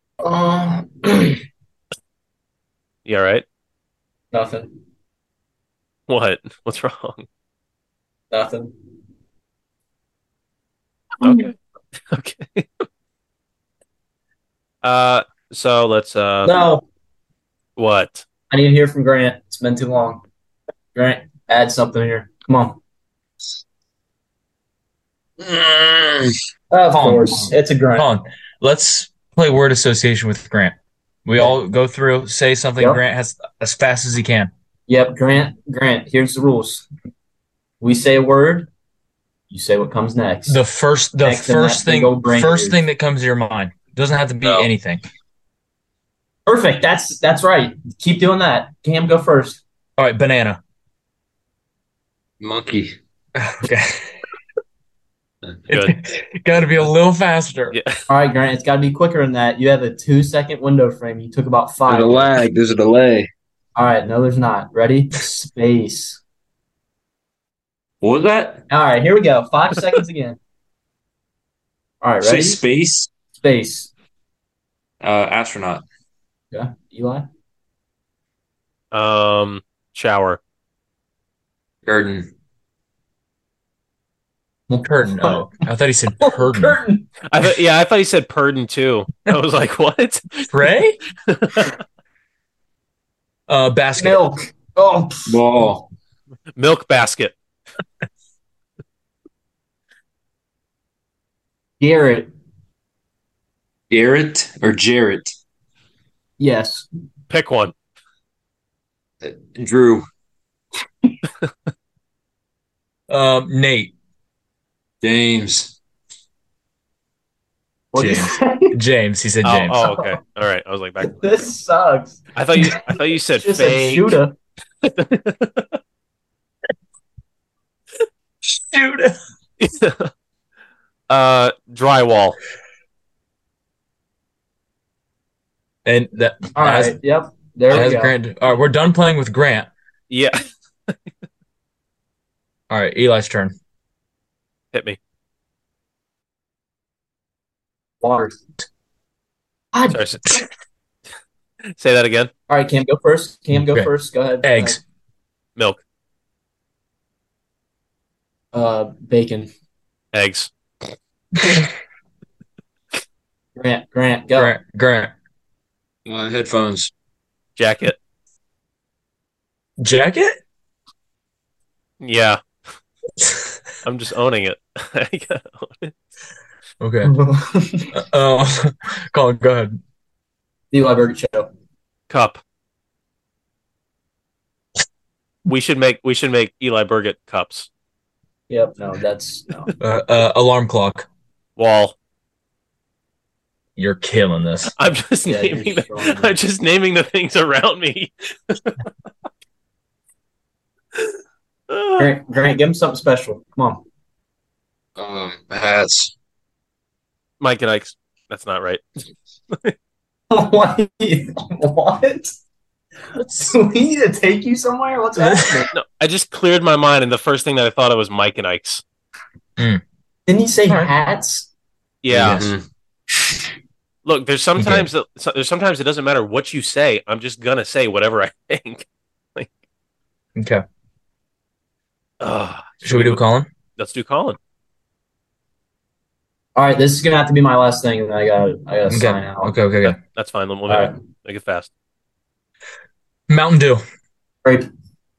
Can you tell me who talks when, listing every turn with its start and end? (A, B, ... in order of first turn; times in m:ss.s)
0:00.2-0:01.4 A
0:03.1-0:03.4 B
0:04.3-0:04.7 A
0:06.1-0:07.3 B
0:08.3-0:08.7 A
0:11.2-0:11.6 B
0:12.1-0:12.8 B
0:14.8-0:16.6 B
0:16.4-0:16.8 A
0:17.8-0:18.2 B
0:18.5-0:20.2 A
0:21.0-0:22.8 A
0:25.4-0:26.3 C
0:26.7-0:28.1 A
0:27.0-0:34.5 D
0:34.9-0:36.9 A
0:37.8-0:38.7 A
0:39.5-0:40.6 A
0:40.5-0:45.0 D
0:41.2-0:42.8 A
0:46.5-0:49.6 A
0:50.0-0:50.6 D
0:52.4-0:53.0 C
0:53.4-0:54.1 D
0:55.7-0:55.9 B
0:55.7-0:57.8 D
0:57.7-0:58.0 B
0:58.1-1:02.4 A
1:01.9-1:03.3 C
1:03.8-1:06.2 A
1:08.0-1:08.6 C
1:08.7-1:10.4 A
1:12.0-1:12.6 A
1:12.2-1:13.1 C
1:13.4-1:13.9 A
1:15.0-1:15.8 C
1:16.5-1:17.3 A
1:18.9-1:20.4 B
1:21.9-1:22.3 C
1:24.7-1:25.4 A
1:24.8-1:26.8 D
1:26.2-1:27.1 A
1:27.3-1:30.6 B
1:30.5-1:31.0 D
1:31.3-1:31.8 B
1:33.5-1:34.2 D
1:34.0-1:35.4 A
1:35.3-1:35.8 C
1:36.6-1:37.4 B
1:41.8-1:42.3 A
1:43.9-1:45.3 C
1:46.4-1:46.9 A
1:47.3-1:47.7 B
1:49.2-1:50.1 C
1:53.1-1:53.9 D
1:55.0-1:55.8 C
1:57.9-1:58.8 A
1:58.0-1:59.8 D
1:59.4-2:01.4 B
1:59.8-2:00.2 A
2:01.2-2:04.4 A
2:02.4-2:04.2 B
2:04.8-2:05.8 B
2:08.4-2:09.1 D
2:09.6-2:10.1 B
2:11.1-2:12.4 B
2:15.8-2:17.0 D
2:16.6-2:18.2 A
2:17.7-2:19.7 D
2:20.1-2:20.4 B
2:22.7-2:23.6 D
2:24.7-2:25.0 B
2:28.0-2:28.4 A
2:29.7-2:30.0 A
2:29.9-2:30.2 B
2:31.8-2:32.3 B
2:32.5-2:34.8 A
2:33.5-2:33.9 D
2:34.4-2:34.8 D
2:38.5-2:39.5 A
2:40.1-2:40.5 B
2:43.6-2:44.6 A
2:44.4-2:45.1 D
2:46.1-2:46.9 C
2:47.6-2:48.0 B
2:49.8-2:50.4 D
2:52.0-2:52.4 B
2:53.8-2:55.9 B
2:56.8-2:57.1 D
2:57.0-2:58.0 A
2:57.9-2:59.8 D
3:00.7-3:01.5 A
3:02.1-3:02.4 B
3:05.5-3:07.7 B
3:08.5-3:09.7 A
3:09.8-3:11.1 D
3:11.6-3:11.9 B
3:13.8-3:14.7 D
3:14.8-3:18.8 B
3:15.3-3:16.4 A
3:21.7-3:22.1 B
3:22.0-3:23.8 A
3:25.0-3:26.1 C
3:27.4-3:28.8 B
3:30.3-3:32.4 A
3:33.2-3:35.7 A
3:35.2-3:35.7 D
3:35.7-3:38.8 B
3:40.3-3:41.5 A
3:40.7-3:40.9 D
3:42.0-3:42.4 B
3:42.1-3:42.5 D
3:42.3-3:42.6 C
3:44.0-3:48.8 B
3:44.6-3:44.9 D
3:50.4-3:50.6 D
3:52.2-3:53.2 B
3:52.8-3:53.5 D
3:53.8-3:54.4 B
3:56.6-4:00.0 A
3:58.9-4:00.0 D
4:00.2-4:01.7 B
4:00.7-4:00.9 A
4:03.3-4:03.8 D